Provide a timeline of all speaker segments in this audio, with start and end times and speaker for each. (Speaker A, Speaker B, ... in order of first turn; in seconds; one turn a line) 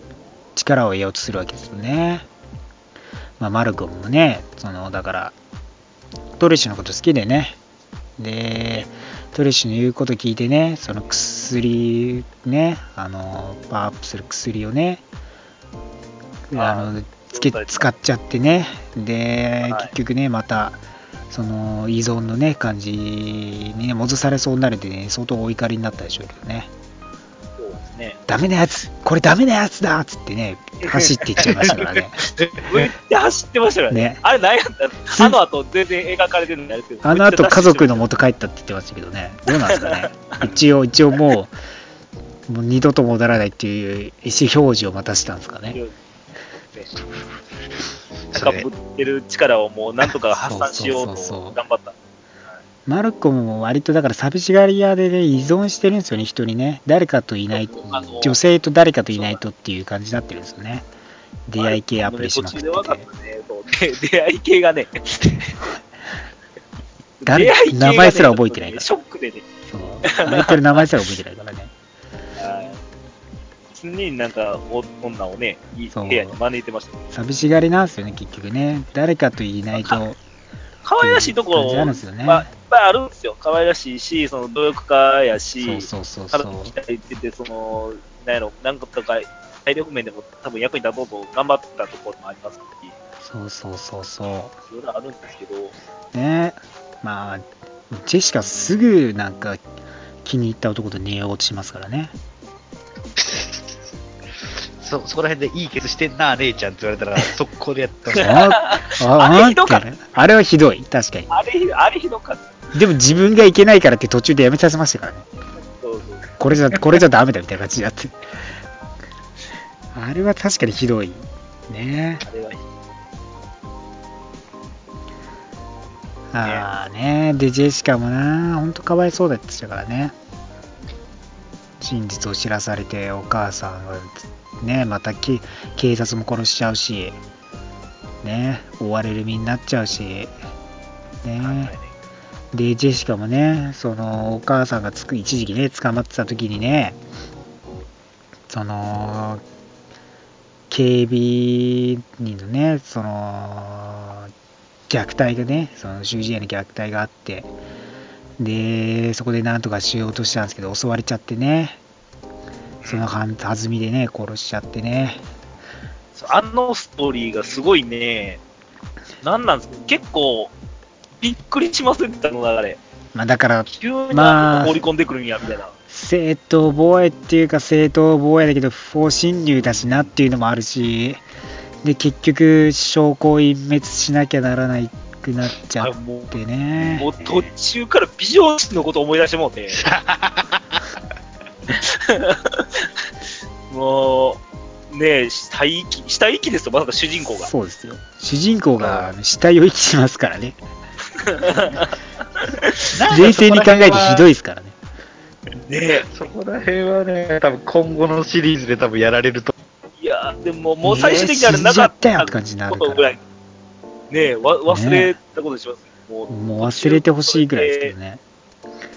Speaker A: 0.6-2.3
Speaker A: 3.4-5.3
Speaker A: 6.4-7.6
Speaker A: 8.2-15.0
Speaker A: 16.5-20.8
Speaker B: 16.6-18.0
Speaker B: 19.6-19.9
Speaker A: 21.3-26.7
Speaker B: 27.6-28.2
Speaker A: 28.3-32.2
Speaker B: 30.8-31.7
Speaker B: 32.6-38.0
Speaker A: 33.9-34.2
Speaker A: 37.0-41.5
Speaker B: 39.5-40.4
Speaker A: 42.5-45.8
Speaker C: 48.3-48.7
Speaker B: 48.3-52.0
Speaker A: 50.3-51.6
Speaker A: 52.9-60.9
Speaker B: 57.5-58.4
Speaker B: 59.1-59.4
Speaker A: 61.5-63.0
Speaker B: 61.6-65.7
Speaker B: 67.2-69.5
Speaker A: 67.3-68.9
Speaker A: 69.7-71.7
Speaker B: 70.0-70.9
Speaker B: 72.4-72.8
Speaker B: 73.7-77.0
Speaker A: 75.9-76.4
Speaker A: 77.1-80.2
Speaker B: 79.8-80.0
Speaker B: 80.8-93.0
Speaker A: 81.0-82.5
Speaker A: 85.6-86.7
Speaker A: 93.2-94.5
Speaker B: 94.7-95.8
Speaker A: 96.1-99.6
Speaker A: 100.2-102.1
Speaker C: 103.2-103.9
Speaker C: 104.8-108.3
Speaker B: 108.1-109.9
Speaker A: 108.2-111.3
Speaker B: 111.3-112.6
Speaker A: 112.7-115.3
Speaker B: 115.7-116.3
Speaker A: 116.4-118.2
Speaker A: 119.9-122.2
Speaker B: 122.2-122.6
Speaker A: 126.3-130.1
Speaker B: 126.4-126.7
Speaker A: 131.8-137.2
Speaker A: 138.2-140.4
Speaker A: 141.2-141.7
Speaker B: 141.4-141.9
Speaker A: 142.5-147.0
Speaker A: 148.5-149.4
Speaker A: 150.7-154.3
Speaker A: 154.9-157.5
Speaker A: 158.4-161.8
Speaker B: 162.8-163.1
Speaker A: 162.8-165.2
Speaker B: 166.1-168.4
Speaker B: 169.2-170.5
Speaker B: 171.2-172.8
Speaker A: 173.1-174.8
Speaker B: 173.7-175.7
Speaker A: 175.9-181.2
Speaker A: 181.8-187.1
Speaker B: 185.8-189.9
Speaker C: 189.7-190.8
Speaker B: 191.7-192.9
Speaker B: 193.7-197.5
Speaker A: 197.5-200.6
Speaker C: 198.8-199.1
Speaker B: 201.1-202.9
Speaker C: 202.9-204.3
Speaker A: 203.1-204.8
Speaker B: 205.7-206.1
Speaker C: 206.0-209.5
Speaker B: 210.0-213.2
Speaker A: 210.8-213.2
Speaker B: 214.1-217.9
Speaker A: 214.7-215.1
Speaker A: 216.3-218.2